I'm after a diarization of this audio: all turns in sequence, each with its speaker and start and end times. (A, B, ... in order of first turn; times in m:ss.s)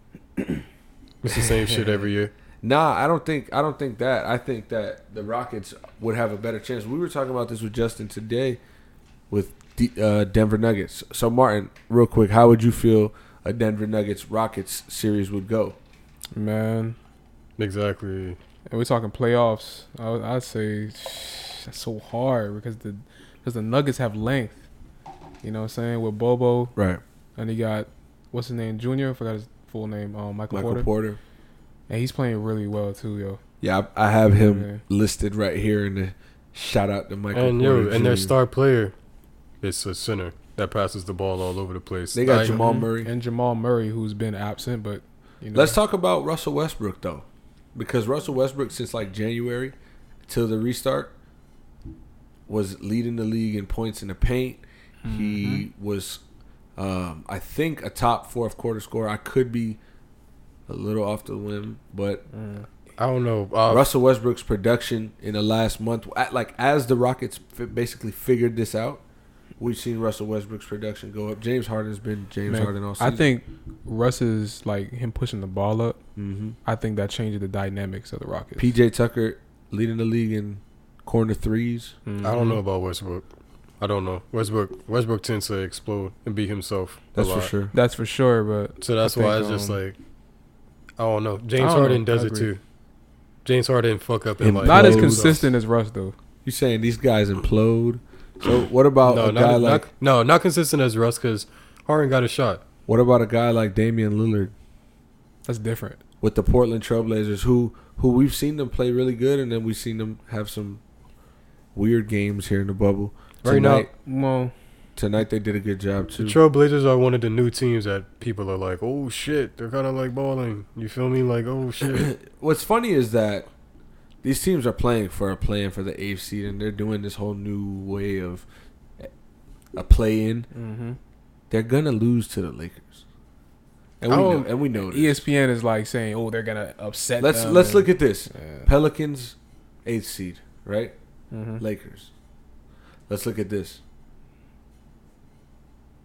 0:01.2-0:02.3 A
0:01.6-0:02.0 B
0:02.6-0:08.6 B
0:09.3-0:15.8 B
0:16.3-0:17.0 C
0:17.6-0:18.4 A
0:18.7-0:24.6 C
0:25.4-0:26.8 C
0:27.4-0:30.9 C
0:30.5-0:31.2 B
0:31.9-0:33.4 C
0:33.6-0:38.3 B
0:34.3-0:34.8 C
0:37.3-0:38.9 A
0:39.6-0:42.6 A
0:42.1-0:43.1 B
0:42.4-0:45.8 C
0:45.5-0:49.8 B
0:50.3-0:51.1 B
0:52.5-0:56.2 B
0:55.0-0:55.6 C
0:56.8-0:59.8 B
1:00.7-1:02.2 B
1:02.3-1:02.7 C
1:03.0-1:03.9 A
1:03.7-1:09.0 B
1:09.6-1:13.3 B
1:12.5-1:16.0 C
1:16.2-1:16.6 B
1:16.6-1:18.7 C
1:18.6-1:22.0 B
1:22.1-1:22.6 C
1:22.2-1:23.3 A
1:23.8-1:27.5 A
1:27.2-1:27.7 B
1:27.7-1:29.8 C
1:28.8-1:30.0 A
1:31.0-1:32.6 A
1:31.6-1:32.5 C
1:33.4-1:35.4 A
1:34.4-1:35.4 B
1:34.6-1:36.2 C
1:36.4-1:39.9 B
1:39.0-1:42.6 A
1:42.9-1:44.5 B
1:45.5-1:46.0 C
1:46.2-1:50.8 B
1:51.8-1:53.9 B
1:53.4-1:53.9 A
1:54.0-1:54.5 C
1:55.0-1:56.4 B
1:56.2-2:02.1 A
2:01.9-2:03.5 B
2:04.2-2:08.4 B
2:09.8-2:10.5 B
2:10.5-2:11.0 C
2:11.5-2:13.0 B
2:14.0-2:15.2 B
2:14.1-2:14.5 A
2:14.1-2:18.7 C
2:17.2-2:19.4 B
2:19.9-2:20.9 B
2:21.3-2:21.6 C
2:21.6-2:22.1 B
2:23.1-2:23.8 B